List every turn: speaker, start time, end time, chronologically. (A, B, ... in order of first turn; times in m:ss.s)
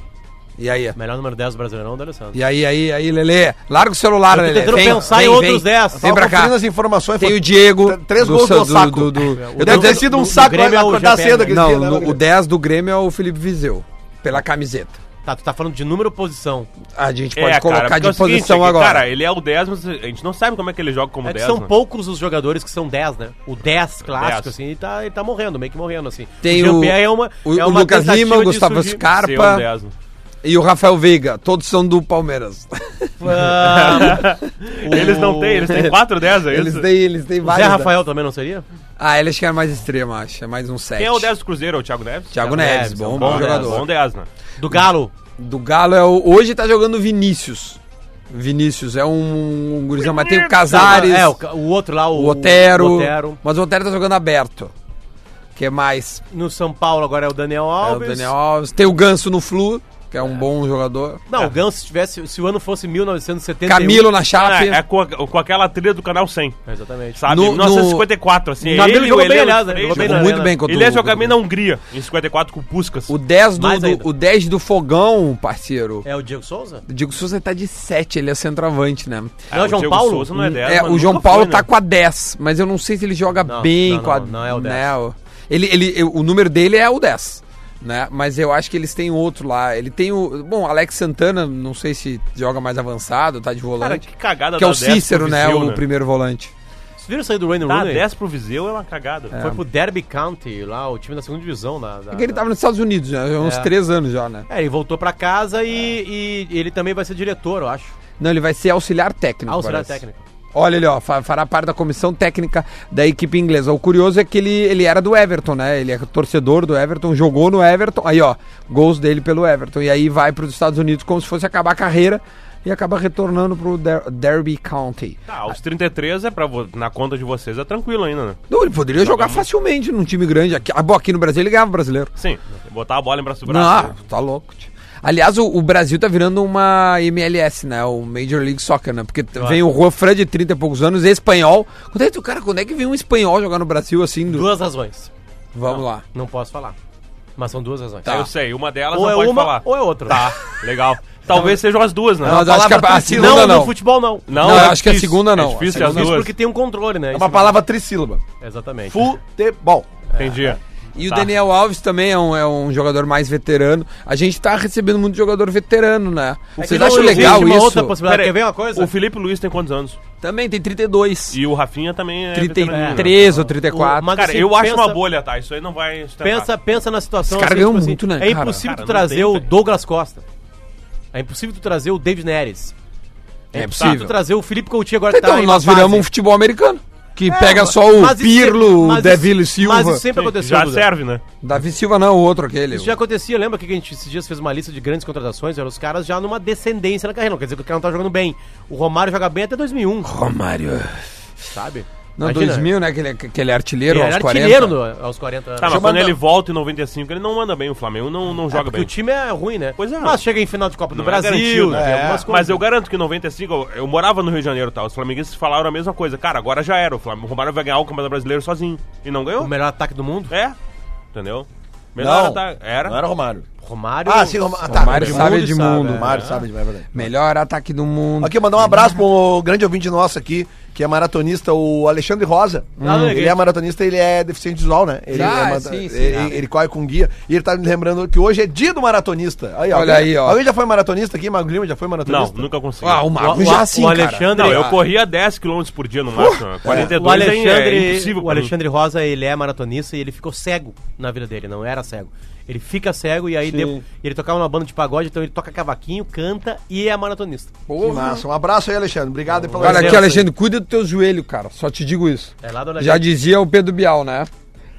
0:00.6-0:01.0 A
0:01.0-0:02.4 B
0:02.3-0:06.6 A
0:04.3-0:06.1 B
0:04.8-0:05.0 C
0:06.0-0:12.2 C
0:07.2-0:10.1 A
0:09.4-0:11.6 B
0:11.5-0:15.0 A
0:15.2-0:16.7 B
0:17.0-0:19.0 A
0:17.4-0:21.7 D
0:21.2-0:29.0 B
0:24.1-0:24.5 D
0:26.4-0:29.7 A
0:29.2-0:29.9 D
0:30.4-0:34.4 A
0:33.2-0:34.3 B
0:33.6-0:36.9 D
0:34.8-0:35.8 B
0:34.9-0:37.9 A
0:37.4-0:38.6 B
0:39.0-0:41.3 A
0:41.0-0:44.3 D
0:42.3-0:43.9 A
0:42.4-0:43.9 B
0:44.6-0:45.1 B
0:45.4-0:47.8 A
0:48.3-0:51.4 A
0:50.1-0:51.1 D
0:50.7-0:53.4 B
0:52.1-0:54.7 A
0:55.6-0:56.2 A
0:56.3-0:58.3 B
0:57.8-1:01.2 A
1:01.3-1:04.1 B
1:03.7-1:04.8 A
1:04.4-1:06.6 D
1:06.7-1:07.2 B
1:07.2-1:13.1 D
1:07.3-1:08.1 A
1:08.6-1:10.6 B
1:09.9-1:11.4 A
1:13.1-1:16.1 A
1:13.6-1:14.1 B
1:16.0-1:16.8 B
1:16.9-1:19.4 A
1:19.5-1:21.7 D
1:19.5-1:20.5 B
1:20.4-1:36.5 A
1:23.4-1:24.9 B
1:33.8-1:35.8 D
1:37.0-1:38.0 B
1:37.7-1:39.4 D
1:39.3-1:39.6 A
1:39.4-1:42.4 B
1:42.1-1:44.5 A
1:43.4-1:43.7 B
1:44.5-1:47.9 B
1:48.2-1:50.0 A
1:49.5-1:50.2 B
1:50.5-2:05.2 A
2:05.3-2:08.4 D
2:08.5-2:12.1 A
2:09.0-2:09.5 D
2:12.2-2:14.0 D
2:13.5-2:24.5 A
2:19.4-2:19.6 B
2:24.3-2:25.1 B
2:25.5-2:26.0 A
2:26.1-2:26.8 B
2:27.4-2:28.1 B
2:28.0-2:28.3 A
2:28.1-2:32.5 D
2:28.9-2:30.2 B
2:31.3-2:31.6 A
2:32.2-2:33.8 A
2:32.2-2:33.6 C
2:33.1-2:35.2 B
2:34.3-2:36.3 D
2:34.3-2:36.2 A
2:35.7-2:37.6 B
2:37.1-2:38.2 C
2:38.4-2:39.0 B
2:38.9-2:39.9 C
2:40.1-2:40.6 B
2:40.2-2:41.3 D
2:41.0-2:48.0 A
2:46.6-2:48.9 B
2:46.6-2:47.5 D
2:48.0-2:50.0 D
2:50.2-2:51.4 A
2:51.3-2:53.3 D
2:52.3-2:54.1 A
2:52.7-2:55.0 B
2:54.1-2:56.5 D
2:56.2-3:00.2 B
2:57.3-2:58.6 A
2:58.6-2:59.5 D
3:01.1-3:02.7 B
3:03.5-3:06.1 B
3:03.5-3:04.2 A
3:03.8-3:04.1 D
3:05.1-3:10.0 A
3:07.3-3:10.9 B
3:10.1-3:11.2 D
3:11.4-3:13.0 A
3:12.7-3:20.1 B
3:20.0-3:21.1 A
3:21.5-3:22.7 B
3:22.2-3:24.8 A
3:23.9-3:25.8 B
3:25.6-3:28.9 D
3:25.7-3:26.2 C
3:28.5-3:32.6 B
3:29.8-3:30.2 D
3:30.9-3:39.5 D
3:31.7-3:32.3 C
3:39.4-3:40.3 B
3:40.3-3:40.6 D
3:41.1-3:43.0 D
3:42.0-3:43.5 C
3:43.6-3:46.2 B
3:44.0-3:47.1 C
3:44.7-3:46.2 A
3:46.1-3:46.4 D
3:46.9-3:48.8 A
3:48.2-4:02.5 C
3:52.8-3:53.2 A
3:52.8-3:53.4 B
3:55.1-3:56.4 A
3:59.7-4:00.4 A
4:02.1-4:03.6 D
4:02.8-4:04.8 A
4:03.2-4:04.7 B
4:04.3-4:08.5 D
4:06.1-4:06.9 A
4:06.7-4:17.5 B
4:13.4-4:13.8 A
4:17.7-4:18.2 A
4:17.8-4:20.3 C
4:19.4-4:20.1 B
4:19.6-4:24.3 A
4:22.4-4:23.1 B